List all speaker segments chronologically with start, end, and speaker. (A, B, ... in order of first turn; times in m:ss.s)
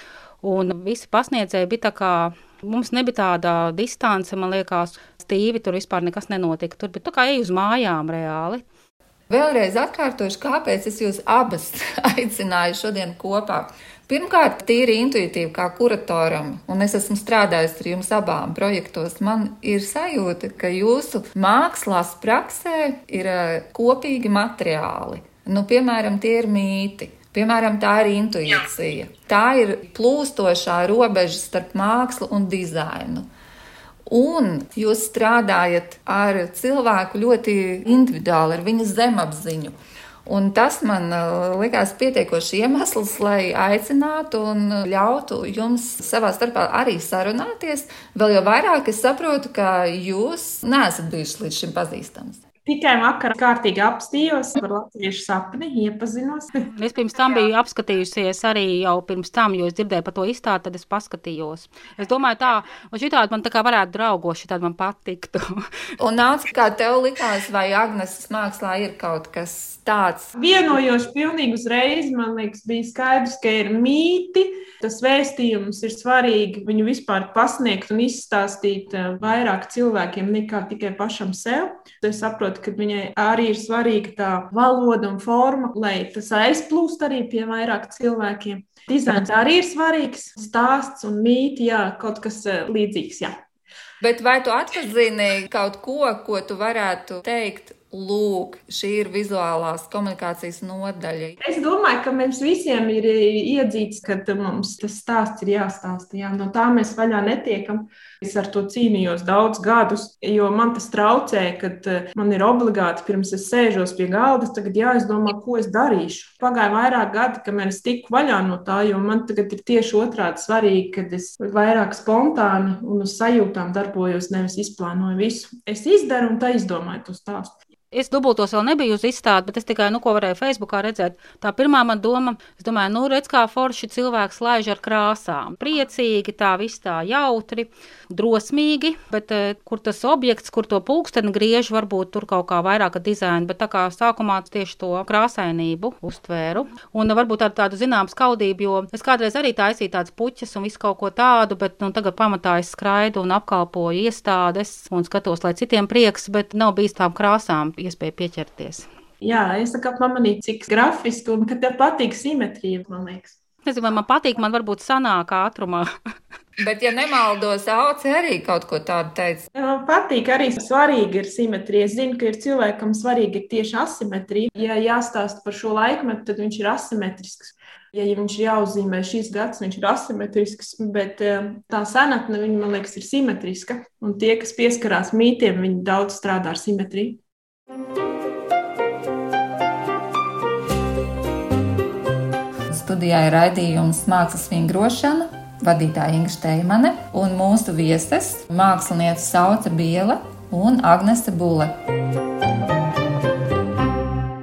0:00.4-0:08.6 A
0:09.3-0:33.3 B
0:34.1-0:52.4 B
0:52.6-0:56.5 C
0:56.7-1:05.7 A
1:06.0-1:10.3 B
1:10.4-1:33.4 C
1:34.0-1:41.4 B
1:41.4-2:07.5 C
2:07.9-2:38.9 A
2:39.2-2:43.4 C
2:43.7-2:45.9 A
2:46.6-2:49.5 B
2:49.5-3:07.2 C
3:12.7-3:21.7 B